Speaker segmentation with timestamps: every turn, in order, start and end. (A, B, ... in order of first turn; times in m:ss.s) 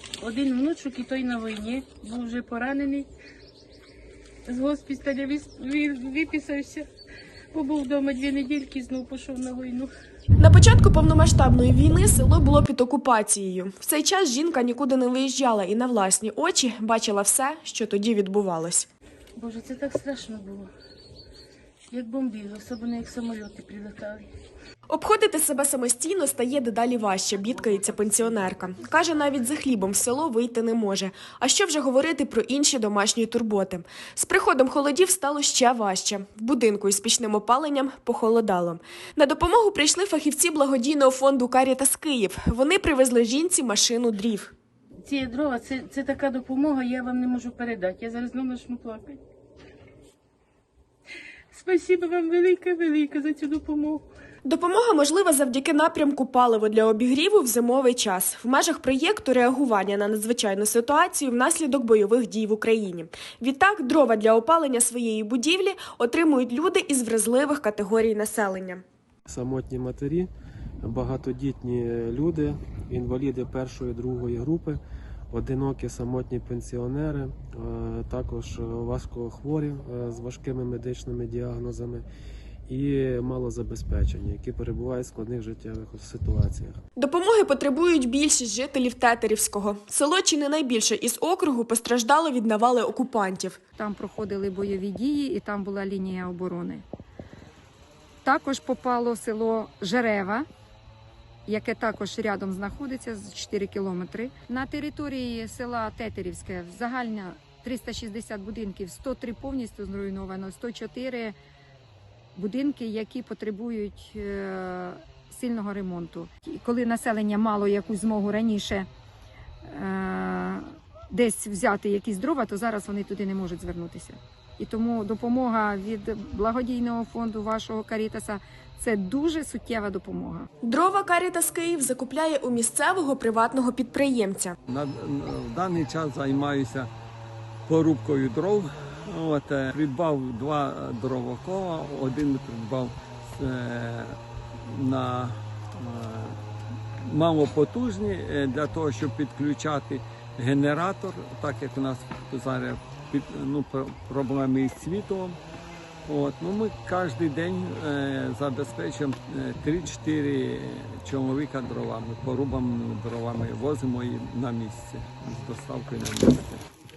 0:00.2-0:03.1 A
0:04.5-0:06.9 A
0:07.5-0:09.9 A
0:10.4-0:18.9 B
0:19.4-0:20.7 A
0:21.9-0:24.3 A
0:24.9-0:44.5 B
0:45.1-0:49.2 A
0:51.5-0:54.0 A
0:54.4-1:08.8 B
1:09.3-1:10.3 C
1:10.8-1:14.8 C
1:15.3-1:22.1 C
1:22.7-1:26.8 C
1:27.0-1:33.6 B
1:33.8-1:36.8 D
1:38.2-1:40.5 D
1:41.5-1:51.4 D
1:52.4-1:58.9 D
1:59.6-2:10.5 D
2:10.6-2:14.6 B
2:14.7-2:16.9 E
2:17.7-2:26.4 E
2:27.0-2:35.4 E
2:36.1-2:46.6 E